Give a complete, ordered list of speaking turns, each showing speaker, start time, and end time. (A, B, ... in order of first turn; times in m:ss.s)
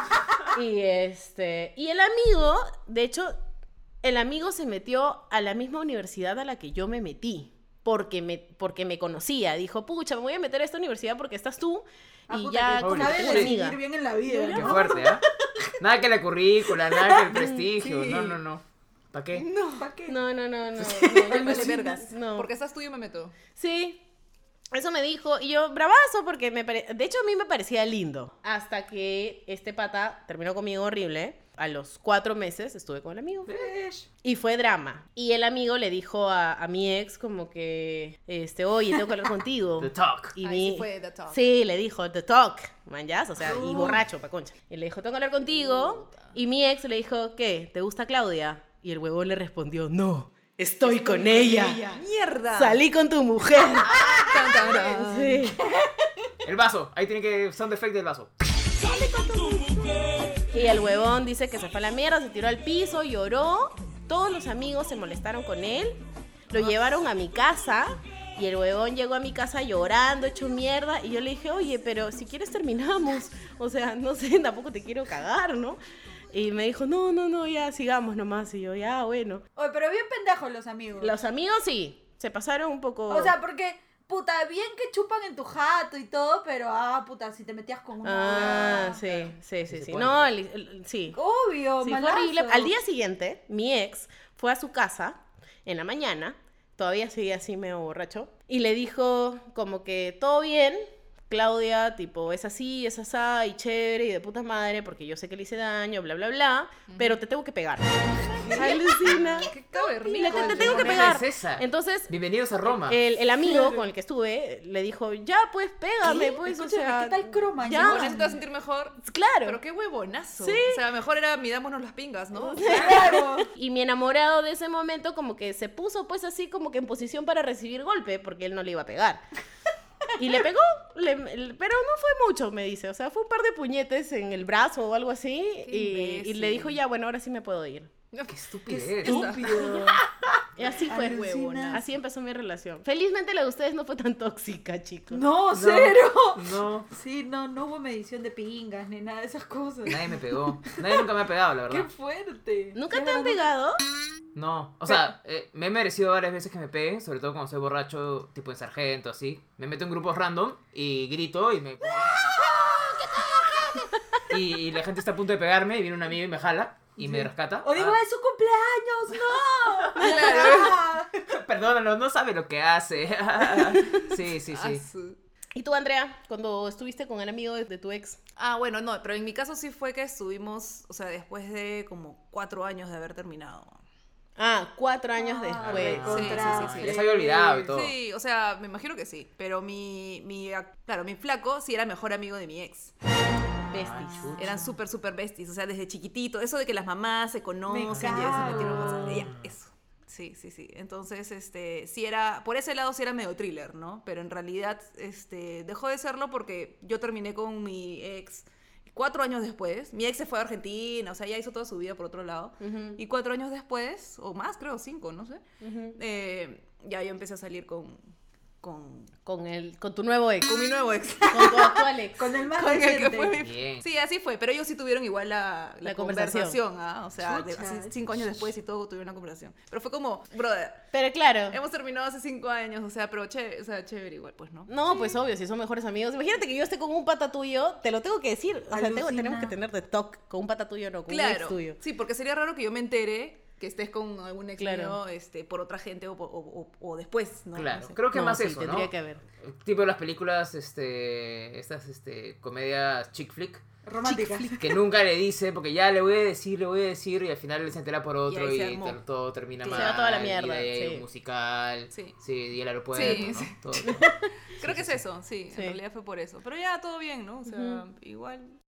0:00.4-0:03.4 A
0:04.0-0:15.0 A
0:12.3-0:15.7 B
0:12.8-0:13.5 C
0:14.5-0:15.2 C
0:15.8-0:18.6 C
0:16.7-0:18.4 B
0:17.3-0:17.7 A
0:19.1-0:19.5 C
0:19.3-0:19.9 D
0:19.8-0:20.2 B
0:20.1-0:22.5 A
0:20.8-0:23.3 D
0:20.8-0:22.0 B
0:23.6-0:24.0 A
0:24.7-0:33.6 A
0:33.4-0:34.0 B
0:34.2-0:52.0 A
0:39.8-0:40.4 C
0:40.4-0:41.4 D
0:43.4-0:44.0 B
0:45.4-0:46.4 D
0:50.8-0:51.9 B
0:51.8-0:52.8 D
0:52.5-0:55.6 A
0:53.8-0:55.5 D
0:56.4-0:58.3 C
0:58.8-1:00.0 B
1:00.5-1:15.8 A
1:16.3-1:19.4 A
1:19.6-1:21.2 B
1:21.0-1:23.3 A
1:23.1-1:29.3 B
1:28.0-1:31.2 A
1:29.7-1:30.3 C
1:31.1-1:32.7 B
1:31.8-1:47.9 A
1:46.9-1:47.2 D
1:48.2-1:51.2 D
1:48.4-1:48.8 B
1:48.5-1:52.1 A
1:50.2-1:51.0 B
1:50.3-1:53.0 C
1:52.8-1:58.2 A
1:53.4-1:53.8 B
1:56.0-1:58.4 B
1:57.8-2:03.2 D
1:59.0-1:59.6 A
2:00.4-2:00.8 A
2:02.3-2:09.2 A
2:02.6-2:03.5 B
2:10.2-2:17.9 A
2:15.6-2:16.8 D
2:18.1-2:19.9 D
2:18.3-2:19.4 C
2:18.7-2:20.0 B
2:20.6-2:25.2 A
2:20.6-2:21.8 D
2:20.7-2:21.8 B
2:25.1-2:31.1 B
2:25.5-2:26.9 C
2:29.8-2:31.9 C
2:31.7-2:33.5 B
2:32.7-2:33.8 A
2:34.3-2:42.6 C
2:34.8-2:35.1 B
2:41.8-2:43.9 B
2:44.3-2:48.0 C
2:47.0-2:51.2 B
2:49.9-2:50.8 D
2:51.2-2:54.8 C
2:54.4-2:55.2 D
2:55.5-2:58.2 A
2:58.4-3:03.8 D
3:04.4-3:06.3 A
3:05.2-3:07.7 B
3:05.6-3:07.9 C
3:06.0-3:12.9 D
3:13.7-3:14.5 A
3:13.7-3:14.7 C
3:14.4-3:35.4 D
3:17.7-3:19.3 B
3:17.9-3:19.5 C
3:32.6-3:33.0 A
3:35.6-3:36.0 A
3:35.9-3:39.1 D
3:39.2-3:40.6 A
3:40.4-3:41.8 D
3:41.2-3:42.3 A
3:42.2-3:43.4 B
3:42.5-3:50.8 D
3:43.4-3:43.8 C
3:45.8-3:46.6 A
3:47.2-3:47.9 B
3:50.9-3:51.6 A
3:51.5-3:54.7 D
3:54.7-4:01.8 A
3:58.7-3:59.5 B
4:01.1-4:08.0 D
4:04.6-4:05.0 A
4:07.5-4:13.6 C
4:08.1-4:09.2 A
4:13.8-4:14.6 B
4:14.0-4:14.7 A
4:14.6-4:25.0 C
4:18.2-4:19.0 D
4:19.6-4:20.0 D
4:19.7-4:21.0 A
4:21.9-4:22.2 D
4:22.9-4:23.6 D
4:23.8-4:24.3 A
4:24.6-4:28.6 D
4:25.5-4:25.8 A
4:27.5-4:27.8 A